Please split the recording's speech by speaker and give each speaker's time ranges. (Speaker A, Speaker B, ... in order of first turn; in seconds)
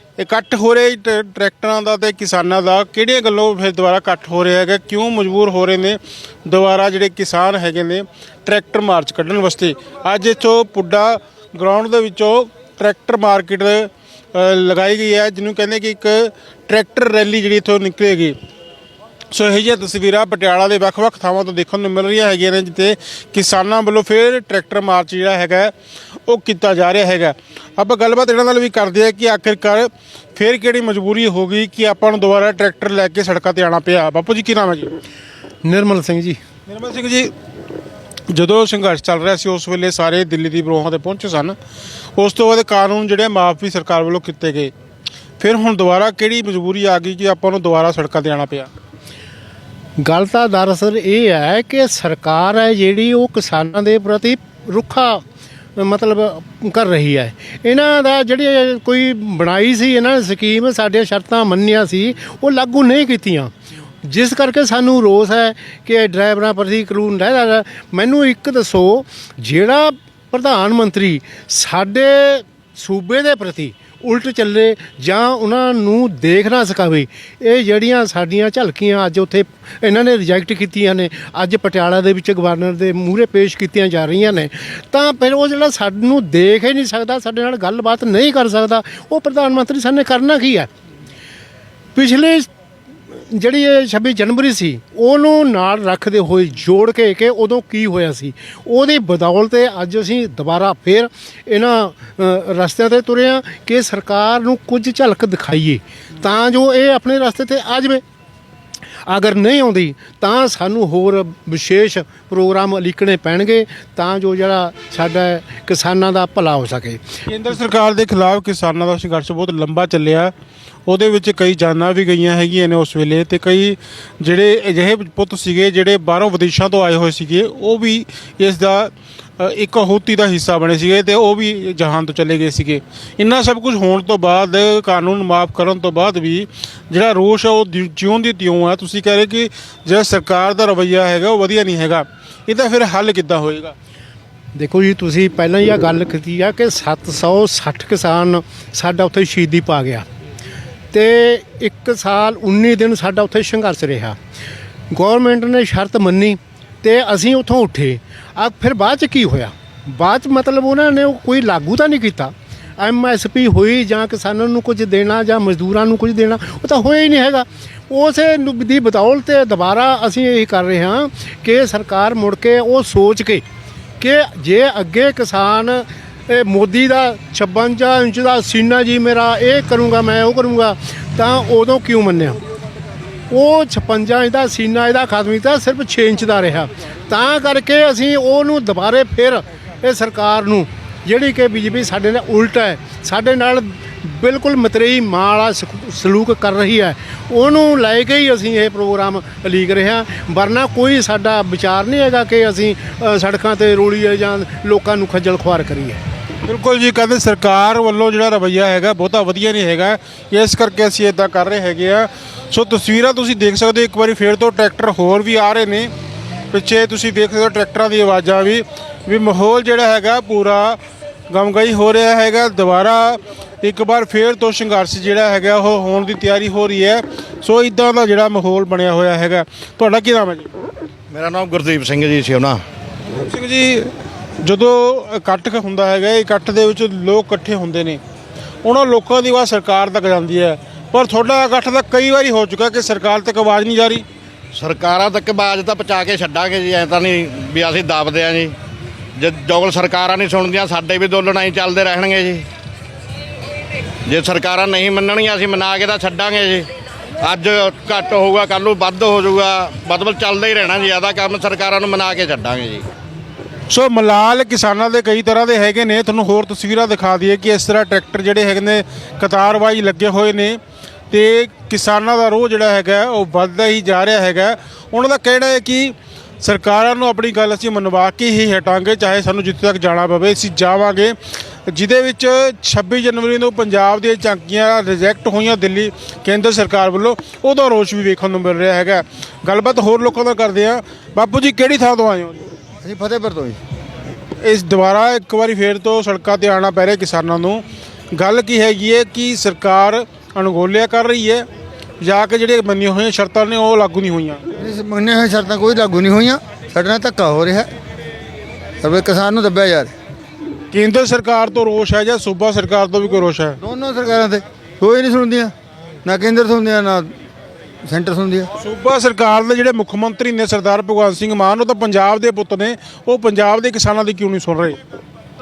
Speaker A: 0.2-18.4, 19.3-25.7, 26.3-34.9, 36.7-37.3, 38.3-41.6, 42.2-44.7, 45.4-48.7, 117.3-120.3, 120.9-143.7, 206.5-215.9, 216.5-220.8, 221.3-230.5, 233.1-233.9, 234.4-238.0, 238.6-244.0, 263.7-270.6, 271.1-281.1, 281.7-292.4, 294.4-301.4, 302.0-304.4, 310.7-313.6, 318.6-324.8
Speaker B: 35.6-36.4, 50.0-55.2, 55.8-63.5, 64.0-90.7, 91.9-92.5, 93.3-108.0, 109.1-117.0, 144.6-150.1, 150.9-154.2, 154.9-173.4, 174.0-182.4, 183.3-206.0
Speaker C: 231.1-232.6, 244.5-248.5, 249.2-252.4, 254.1-256.7, 257.2-262.9
Speaker D: 292.8-293.6, 304.6-307.7, 308.8-309.9, 313.6-315.5, 316.0-317.1, 317.8-318.5